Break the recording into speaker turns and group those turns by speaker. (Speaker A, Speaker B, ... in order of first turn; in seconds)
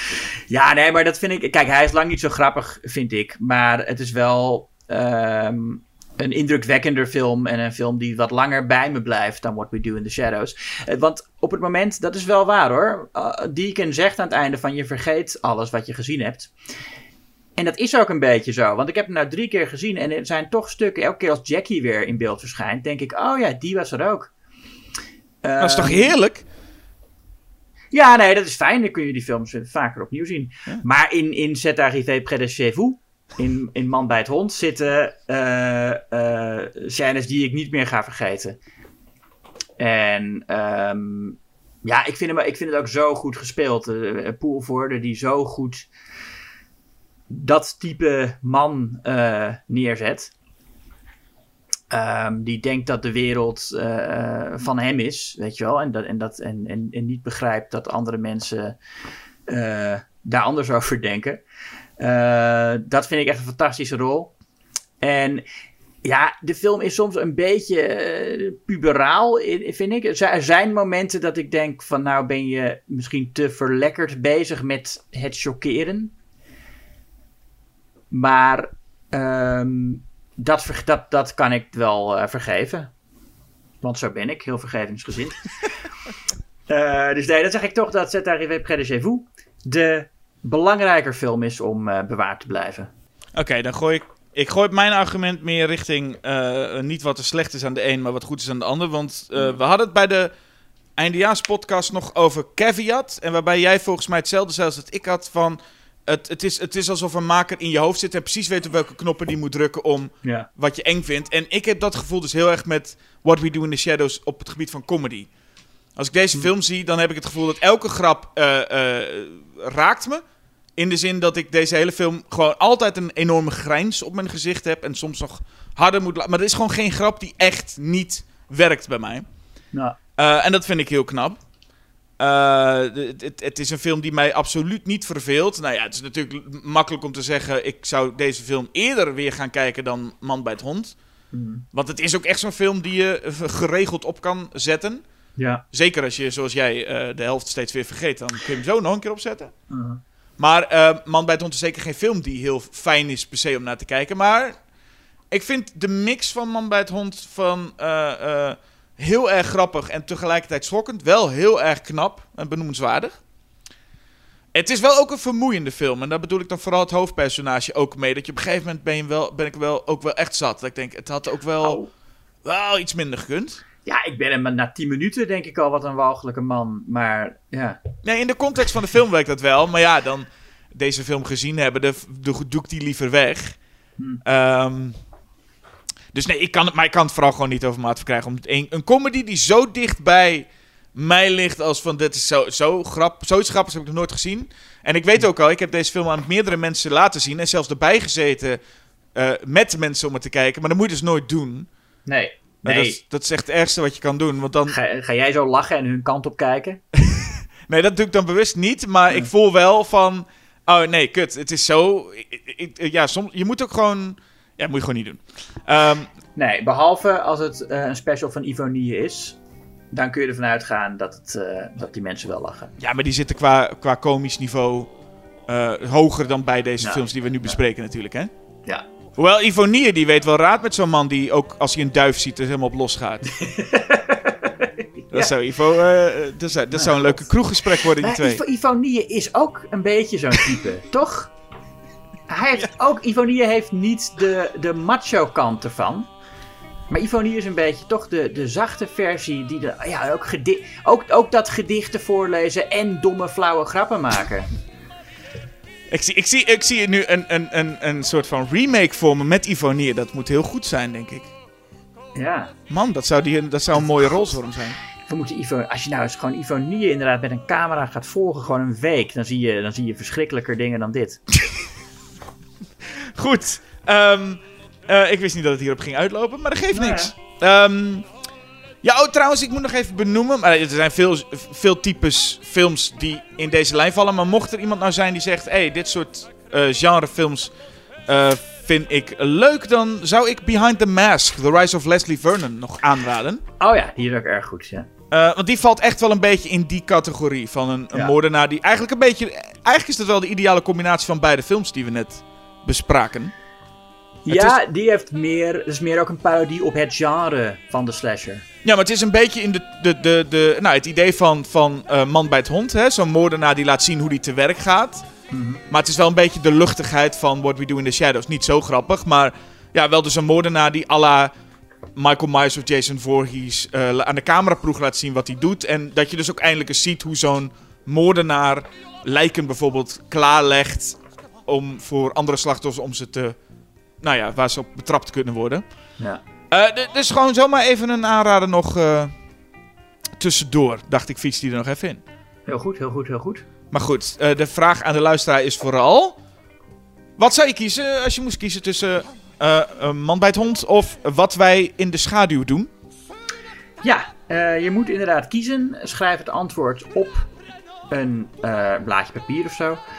Speaker A: 0.5-16.5, 17.6-24.3, 25.4-26.1, 27.9-38.6, 39.8-45.9, 47.3-50.3, 51.9-58.8, 59.5-61.4, 62.0-64.3, 65.0-65.5, 66.0-76.1, 78.1-82.9, 83.8-85.4, 86.7-92.9, 141.3-141.6, 145.4-145.6, 149.7-150.0, 171.6-171.9, 173.8-177.8, 202.1-203.0, 204.7-206.8, 216.4-219.4, 219.9-222.7, 226.8-227.6, 233.3-235.3, 236.8-237.3, 238.0-241.3, 242.3-246.1, 246.9-254.5, 262.1-262.5, 265.1-271.2, 276.7-277.1, 293.6-294.9, 304.3-308.4, 315.3-315.6, 342.5-343.4, 353.8-357.3, 357.9-359.8
Speaker B: 25.6-26.4, 93.3-100.3, 101.0-115.3, 116.0-120.2, 120.8-129.3, 130.2-131.4, 132.2-140.9, 141.7-145.0, 145.7-149.5, 150.4-154.6, 155.3-163.2, 164.5-171.8, 172.4-173.6, 178.0-183.6, 184.2-185.0, 186.1-198.6, 199.2-201.7, 202.6-204.8, 206.9-216.1, 222.8-224.9, 225.5-228.3, 229.2-233.3, 235.1-238.4, 255.9-261.3, 262.7-264.8, 272.8-278.1, 278.8-287.5, 288.1-293.4, 295.1-303.3, 304.3-304.6, 308.6-315.1, 315.7-321.3, 322.0-333.4, 334.0-335.6, 336.5-339.1, 340.2-342.0, 343.7-346.2, 347.2-352.7